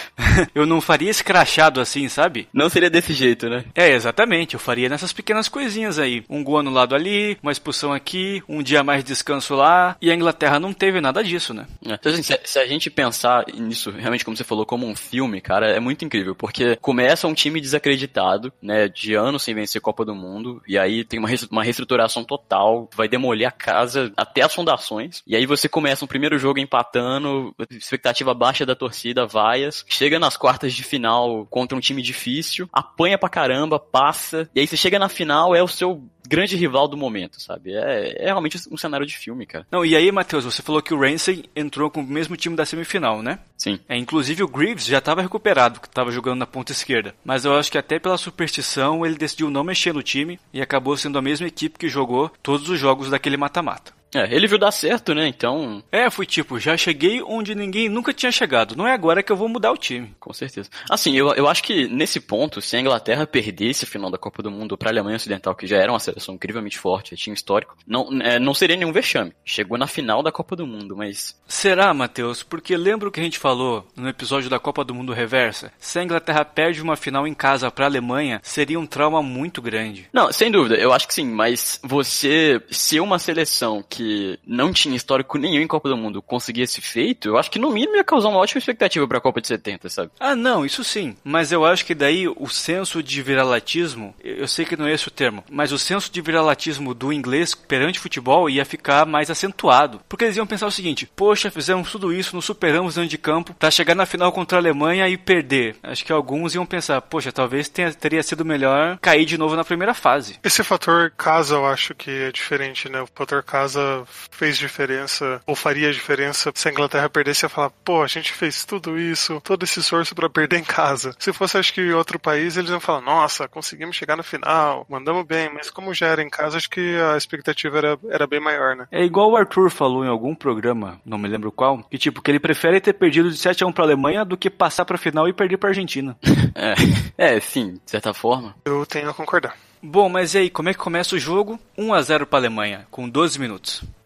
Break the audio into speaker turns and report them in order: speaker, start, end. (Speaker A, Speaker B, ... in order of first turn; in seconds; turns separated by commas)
Speaker A: 0.6-2.5, Speaker B: 2.5-3.7, Speaker A: 3.8-11.7, Speaker B: 11.8-39.7, Speaker A: 39.7-53.9, Speaker B: 54.1-55.8, Speaker A: 55.9-60.1, Speaker B: 60.2-71.3, Speaker A: 71.5-80.1, Speaker B: 80.1-90.1, Speaker A: 90.2-110.4, Speaker C: 110.4-128.9, Speaker A: 128.9-136.2, Speaker B: 136.3-138.6, Speaker C: 138.7-139.6, Speaker A: 139.8-143.8